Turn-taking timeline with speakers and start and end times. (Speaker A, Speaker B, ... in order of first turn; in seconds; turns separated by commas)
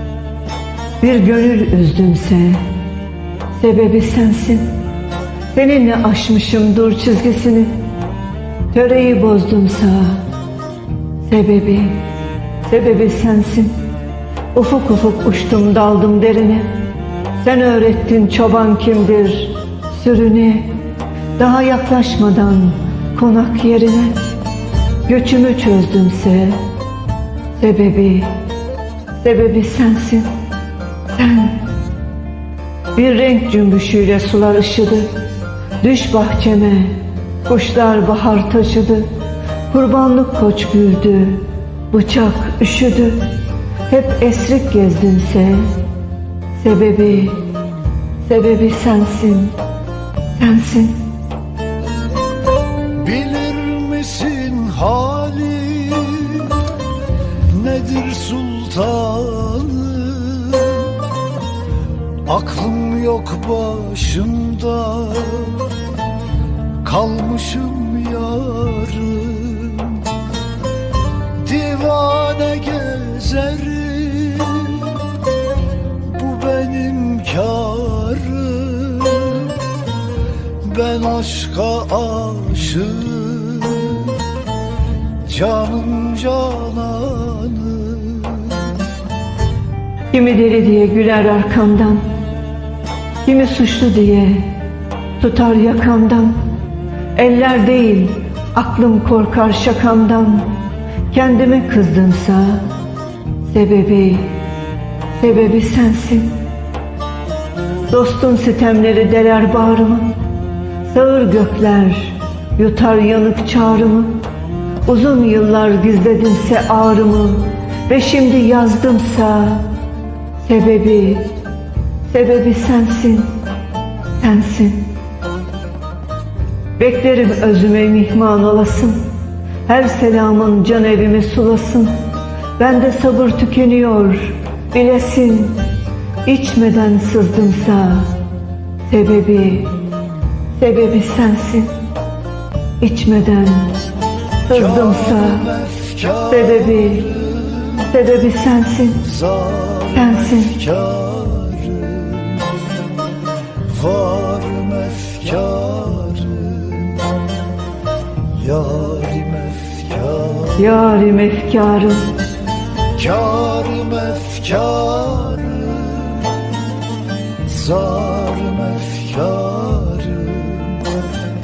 Speaker A: 1.0-2.6, Speaker A: 3.6-4.7, Speaker A: 5.5-7.8, Speaker A: 8.7-10.2, Speaker A: 11.3-12.0, Speaker A: 12.7-13.7, Speaker A: 14.5-16.7, Speaker A: 17.4-20.7, Speaker A: 21.4-24.2, Speaker A: 25.1-26.6, Speaker A: 27.6-28.3, Speaker A: 29.2-30.3, Speaker A: 31.1-31.6, Speaker A: 33.0-35.1, Speaker A: 35.8-37.0, Speaker A: 37.5-39.1, Speaker A: 39.7-43.3, Speaker A: 43.9-45.7, Speaker A: 46.6-47.4, Speaker A: 48.2-49.5, Speaker A: 50.4-51.0, Speaker B: 53.0-56.6, Speaker B: 57.5-60.9, Speaker B: 62.3-65.7, Speaker B: 66.8-70.1, Speaker B: 71.4-75.0, Speaker B: 76.1-79.5, Speaker B: 80.6-84.1, Speaker B: 85.2-88.7, Speaker A: 90.1-92.0, Speaker A: 93.2-94.5, Speaker A: 95.2-96.4, Speaker A: 97.1-100.5, Speaker A: 101.1-102.6, Speaker A: 103.5-104.3, Speaker A: 105.2-106.3, Speaker A: 107.9-110.1, Speaker A: 110.9-114.2, Speaker A: 114.8-119.6, Speaker A: 120.4-121.2, Speaker A: 122.1-123.3, Speaker A: 124.2-124.8, Speaker A: 126.8-129.0, Speaker A: 129.7-132.0, Speaker A: 132.6-135.6, Speaker A: 136.2-138.1, Speaker A: 138.9-139.7, Speaker A: 140.6-141.7, Speaker A: 142.8-143.7, Speaker A: 144.5-145.5, Speaker B: 144.5-147.9, Speaker A: 146.3-147.2, Speaker A: 147.8-149.1, Speaker B: 149.1-152.5, Speaker A: 149.9-150.6, Speaker B: 153.6-157.2, Speaker B: 158.4-160.6, Speaker A: 160.6-162.1, Speaker B: 162.9-166.3, Speaker B: 167.4-170.8